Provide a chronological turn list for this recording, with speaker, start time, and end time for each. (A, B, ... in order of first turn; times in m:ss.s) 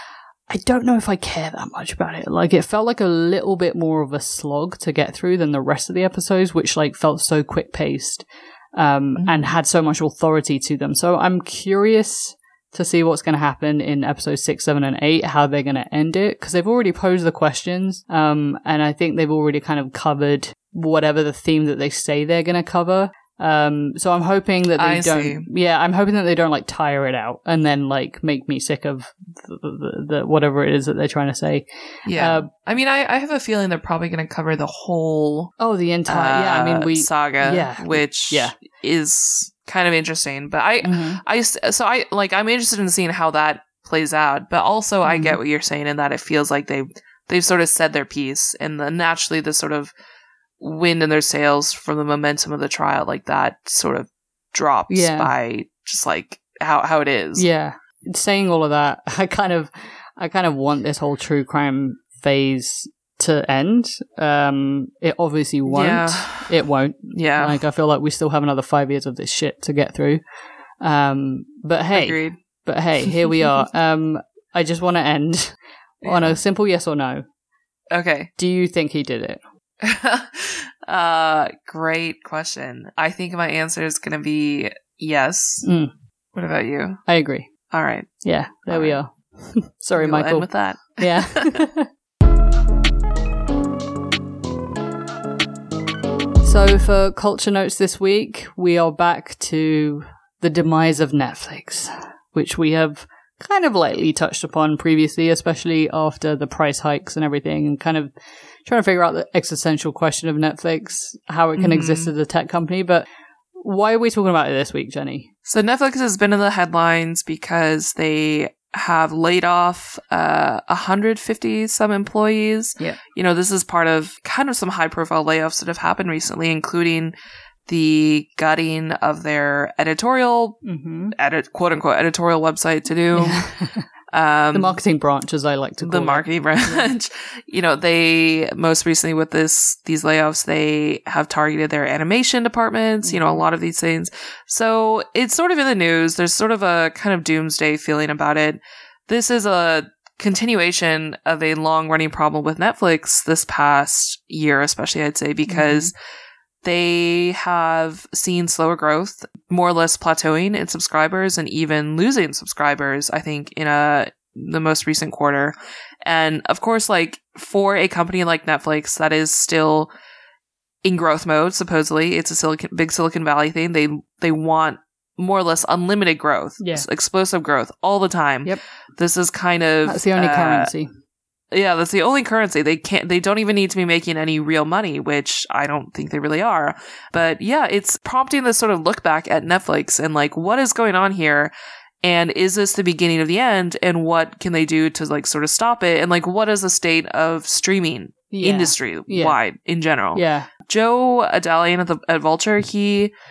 0:00.5-0:32.5 A
0:09.2-0:09.5 B
0:24.8-0:25.5 B
0:32.0-0:35.5 B
0:35.6-0:38.6 A
0:36.1-0:49.9 B
0:40.8-0:41.2 A
0:45.0-0:45.4 A
0:50.6-0:57.4 B
0:54.9-0:55.3 A
0:57.4-1:10.2 A
1:05.7-1:06.6 B
1:07.1-1:07.6 B
1:10.8-1:17.2 A
1:11.9-1:12.4 B
1:16.0-1:16.3 B
1:17.9-1:18.3 B
1:18.4-1:19.4 A
1:19.8-1:25.7 B
1:25.6-1:25.9 A
1:26.3-1:27.0 B
1:27.1-1:27.5 A
1:27.7-1:29.0 B
1:28.2-1:31.9 A
1:30.0-1:31.6 B
1:36.4-1:48.1 A
1:48.6-1:53.0 A
1:51.6-1:52.1 B
1:53.6-1:55.3 A
1:55.4-2:07.1 B
2:07.7-2:10.6 B
2:10.6-2:11.2 A
2:11.1-2:13.5 B
2:13.2-2:13.8 A
2:14.1-2:14.8 B
2:14.5-2:16.9 A
2:15.8-2:35.9 B
2:23.0-2:23.4 A
2:35.5-2:35.9 A
2:36.6-2:45.5 B
2:46.0-2:49.9 B
2:50.8-3:00.7 B
2:56.6-2:56.8 A
2:59.8-3:00.9 A
3:01.5-3:23.1 B
3:18.3-3:19.4 A
3:20.1-3:20.5 A